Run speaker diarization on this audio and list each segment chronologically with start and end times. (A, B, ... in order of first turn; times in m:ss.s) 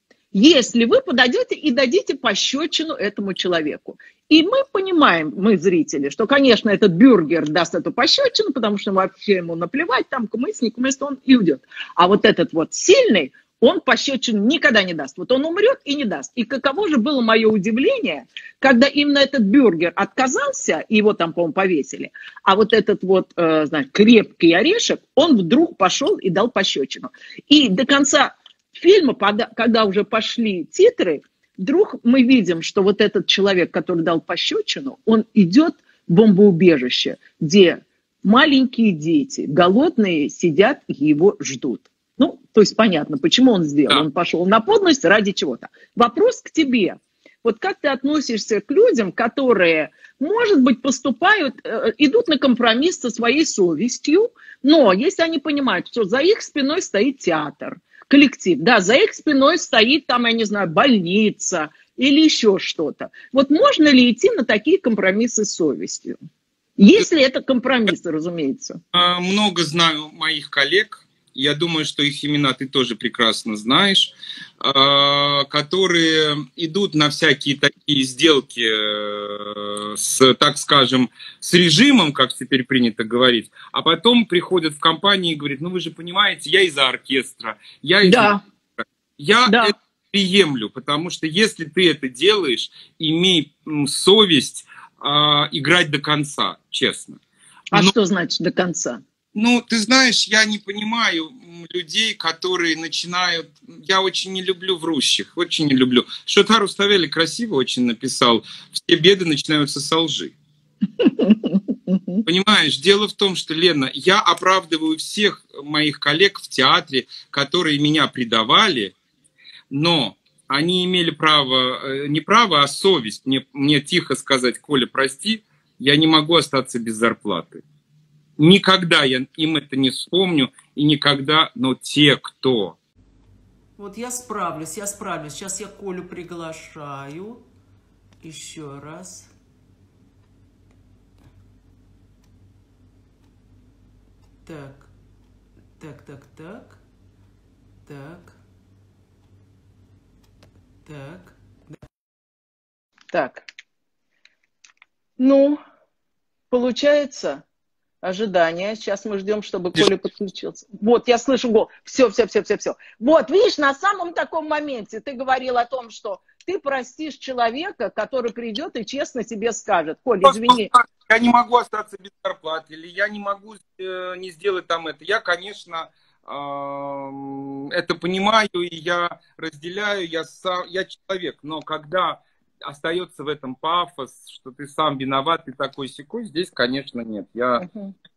0:00.3-1:06.2 A
1:06.8-1:08.8 A
1:08.9-1:37.2 B
1:28.0-1:28.4 A
1:29.5-1:29.7 A
1:37.7-1:39.0 A
1:39.4-1:50.4 B
1:51.0-1:52.2 A
1:52.3-1:59.0 B
1:59.7-2:07.6 B
2:08.4-2:12.8 B
2:13.8-2:17.4 C
2:18.2-2:19.3 C
2:24.4-2:24.9 C
2:25.8-2:26.8 C
2:27.9-2:28.4 C
2:30.8-2:31.8 C
2:33.1-2:33.4 A
2:35.2-2:35.6 A
2:36.5-2:37.4 A
2:38.0-2:50.7 A
2:50.2-3:07.6 B
3:07.6-3:07.9 A